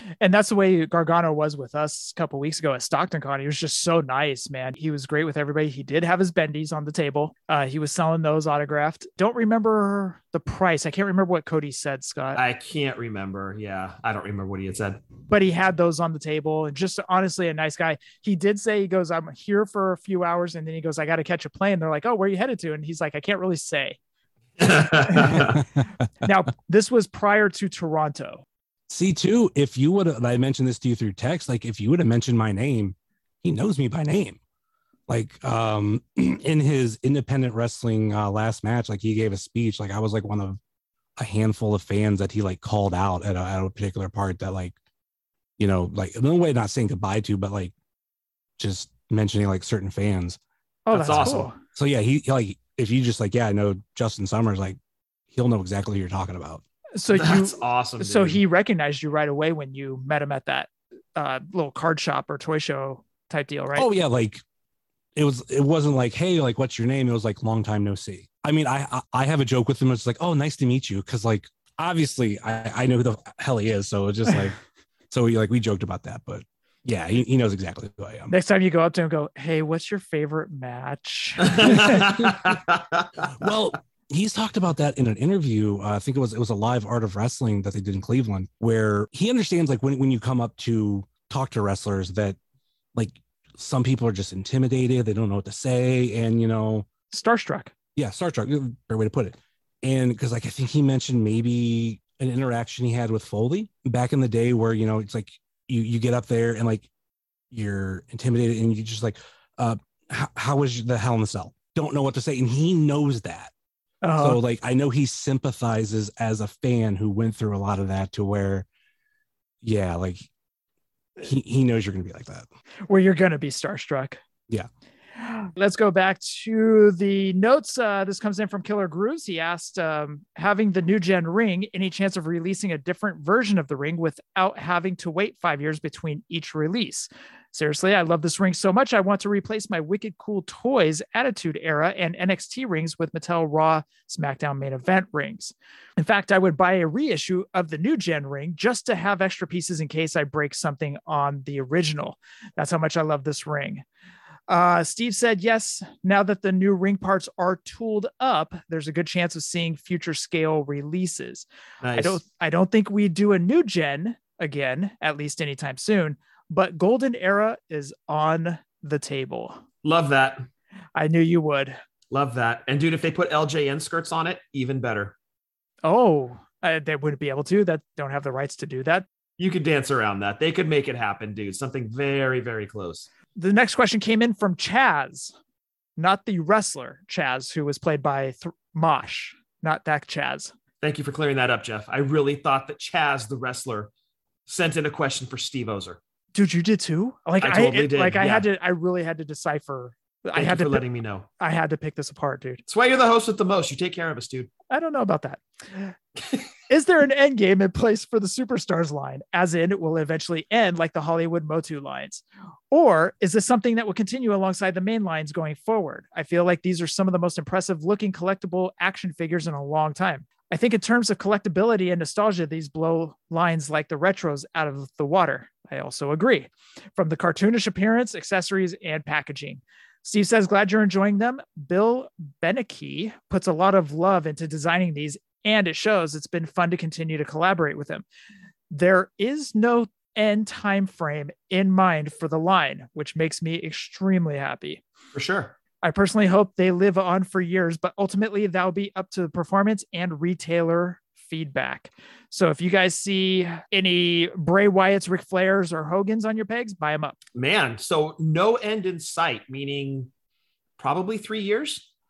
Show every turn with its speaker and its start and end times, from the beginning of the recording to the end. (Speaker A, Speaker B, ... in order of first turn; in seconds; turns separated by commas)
Speaker A: 0.2-12.4, Speaker B: 12.3-15.0, Speaker A: 15.3-24.0, Speaker B: 24.6-25.6, Speaker A: 25.1-25.4, Speaker A: 26.2-28.4, Speaker C: 28.9-34.4, Speaker C: 35.1-40.6, Speaker C: 41.2-44.8, Speaker C: 45.6-47.7, Speaker C: 48.6-50.4, Speaker A: 50.9-51.6, Speaker C: 50.9-54.8, Speaker B: 50.9-51.5, Speaker C: 55.3-56.6, Speaker A: 57.0-63.9, Speaker B: 57.1-58.4, Speaker C: 63.8-64.4, Speaker C: 65.2-74.6, Speaker C: 75.1-78.3, Speaker A: 78.3-82.1, Speaker B: 81.4-83.2, Speaker C: 83.2-92.4, Speaker C: 93.0-96.9, Speaker A: 97.1-97.7, Speaker C: 98.0-106.9, Speaker C: 107.5-113.5, Speaker A: 114.0-114.4, Speaker C: 114.2-118.7, Speaker C: 119.6-120.3, Speaker C: 121.2-122.5, Speaker A: 122.9-124.2, Speaker A: 125.2-153.8, Speaker A: 154.5-169.6, Speaker B: 161.8-162.2, Speaker B: 169.8-170.4, Speaker A: 170.9-171.8, Speaker B: 172.1-175.2, Speaker A: 175.8-179.1, Speaker B: 179.4-183.1, Speaker A: 183.4-185.3, Speaker A: 186.0-190.5, Speaker B: 190.8-193.9, Speaker B: 194.5-196.0, Speaker A: 196.3-200.8, Speaker B: 197.4-198.5, Speaker B: 200.4-201.3, Speaker A: 201.4-202.6, Speaker B: 202.7-204.5, Speaker A: 204.7-205.9, Speaker A: 206.7-238.1, Speaker A: 238.7-244.8, Speaker B: 245.1-245.5, Speaker A: 245.8-257.2, Speaker B: 257.4-260.1, Speaker B: 260.8-261.9